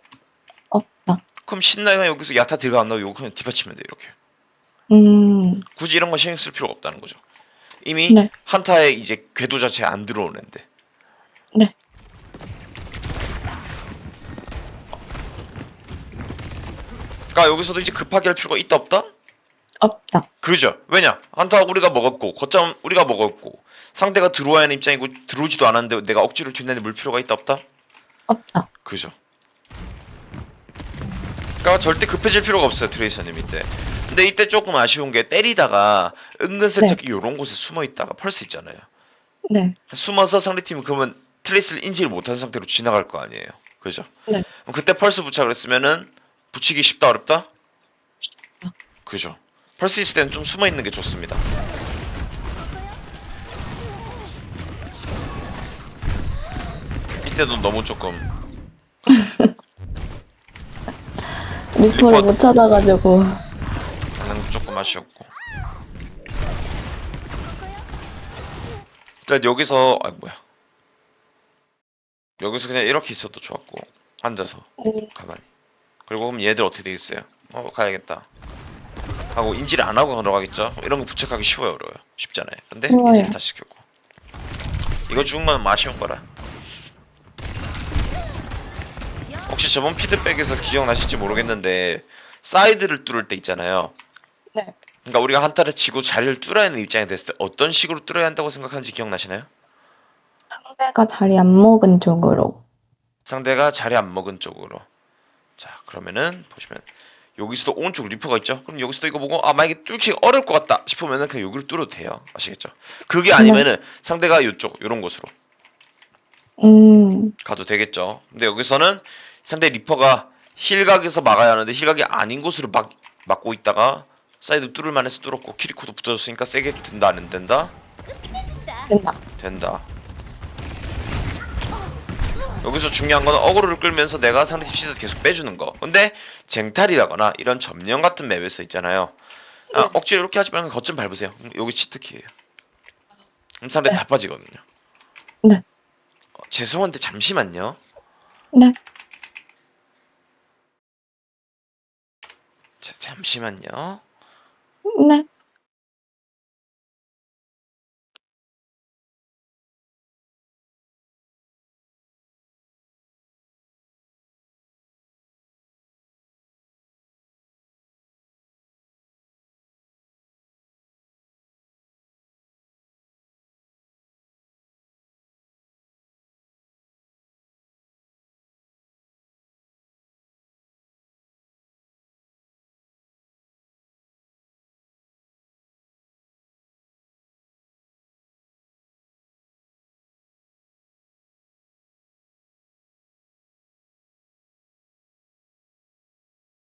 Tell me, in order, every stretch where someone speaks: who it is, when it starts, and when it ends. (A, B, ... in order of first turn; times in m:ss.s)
0:00.7-0:01.2 A
0:01.4-0:04.1 B
0:04.9-0:05.6 A
0:05.8-0:07.2 B
0:07.8-0:10.6 B
0:17.3-0:19.1 B
0:19.8-0:20.2 A
0:20.4-0:27.6 B
0:28.3-0:28.6 A
0:28.8-0:29.1 B
0:31.6-0:38.8 B
0:39.4-0:39.8 A
0:39.9-0:44.1 B
0:44.6-0:47.5 B
0:49.0-0:51.4 B
0:57.2-0:58.3 B
0:59.1-0:59.5 A
1:01.8-1:03.4 A
1:01.9-1:02.3 B
1:04.2-1:05.3 B
1:09.2-1:10.4 B
1:12.4-1:15.4 B
1:14.8-1:15.1 A
1:16.1-1:18.3 B
1:19.3-1:23.8 B
1:22.9-1:23.3 A
1:25.1-1:26.2 B
1:29.5-1:33.9 B
1:35.0-1:39.5 B
1:40.5-1:42.6 A
1:43.2-1:44.8 B
1:45.6-1:46.8 B
1:47.4-1:55.3 B
1:53.3-1:53.6 A
1:56.6-1:57.3 A
1:57.4-2:07.7 B
2:08.9-2:09.2 A
2:09.4-2:09.8 B
2:12.6-2:19.1 B
2:19.7-2:22.3 B
2:23.6-2:24.6 B
2:26.5-2:27.8 B
2:32.8-2:34.0 B
2:34.8-2:35.2 A